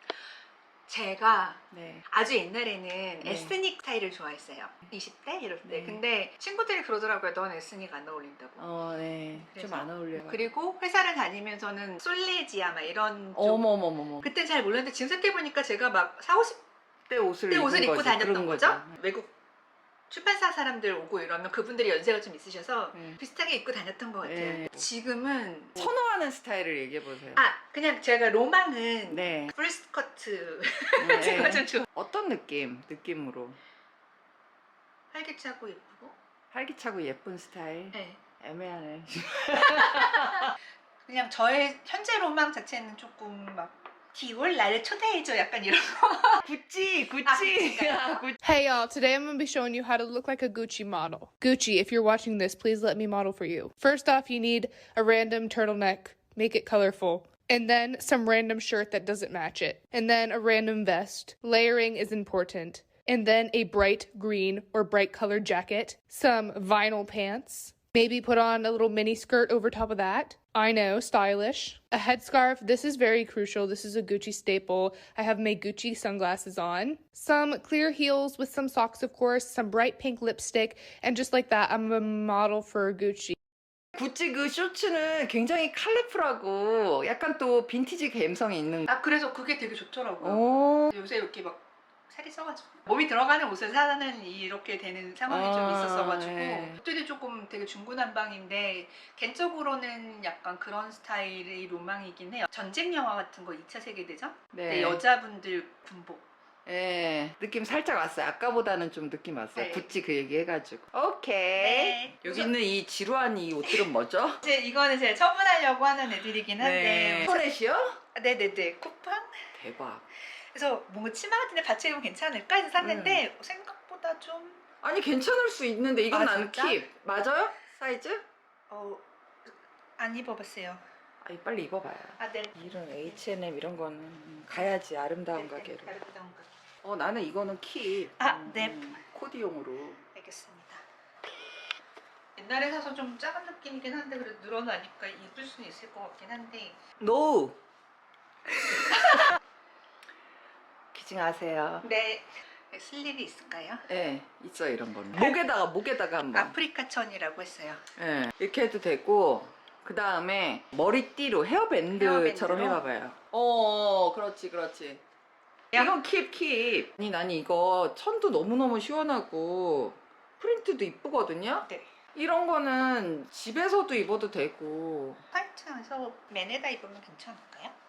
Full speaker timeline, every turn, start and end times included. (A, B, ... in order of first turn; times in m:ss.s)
0:00.9-0:08.6 A
0:01.7-0:02.0 B
0:03.2-0:03.6 B
0:05.6-0:06.0 B
0:08.6-0:10.4 B
0:09.4-0:13.7 A
0:13.3-0:14.3 B
0:14.2-0:16.6 A
0:17.1-0:18.9 B
0:17.5-0:19.3 A
0:20.1-0:25.9 A
0:24.2-0:24.9 B
0:25.8-0:27.4 B
0:27.3-0:31.8 A
0:29.1-0:29.5 B
0:31.0-0:33.6 B
0:35.1-0:36.2 A
0:36.5-0:40.5 B
0:37.9-0:38.2 A
0:39.6-0:40.5 A
0:41.0-0:46.4 A
0:46.4-0:48.4 B
0:47.2-0:48.2 A
0:48.4-1:23.4 C
1:23.9-1:28.9 B
1:28.9-1:46.3 A
1:30.2-1:30.9 B
1:35.3-1:36.8 B
1:44.5-1:45.0 B
1:46.6-1:54.4 B
1:49.6-1:49.9 A
1:51.6-1:52.5 A
1:54.4-1:57.5 A
1:56.6-1:58.0 B
1:58.1-1:59.4 A
1:59.5-2:00.0 B
2:00.5-2:04.6 A
2:02.8-2:03.2 B
2:04.8-2:08.2 B
2:06.1-2:06.8 A
2:08.7-2:10.8 A
2:11.2-2:16.0 B
2:12.2-2:12.5 A
2:15.3-2:16.5 A
2:16.8-2:20.0 B
2:18.2-2:19.0 A
2:20.0-2:20.8 A
2:22.4-2:26.8 A
2:27.0-2:27.6 B
2:28.7-2:29.1 B
2:30.9-2:31.8 B
2:31.8-2:33.8 A
2:33.9-2:36.5 B
2:35.1-2:35.4 A
2:36.3-2:37.8 A
2:38.0-2:45.0 B
2:41.9-2:42.8 A
2:45.7-2:55.2 B
2:55.3-2:57.7 A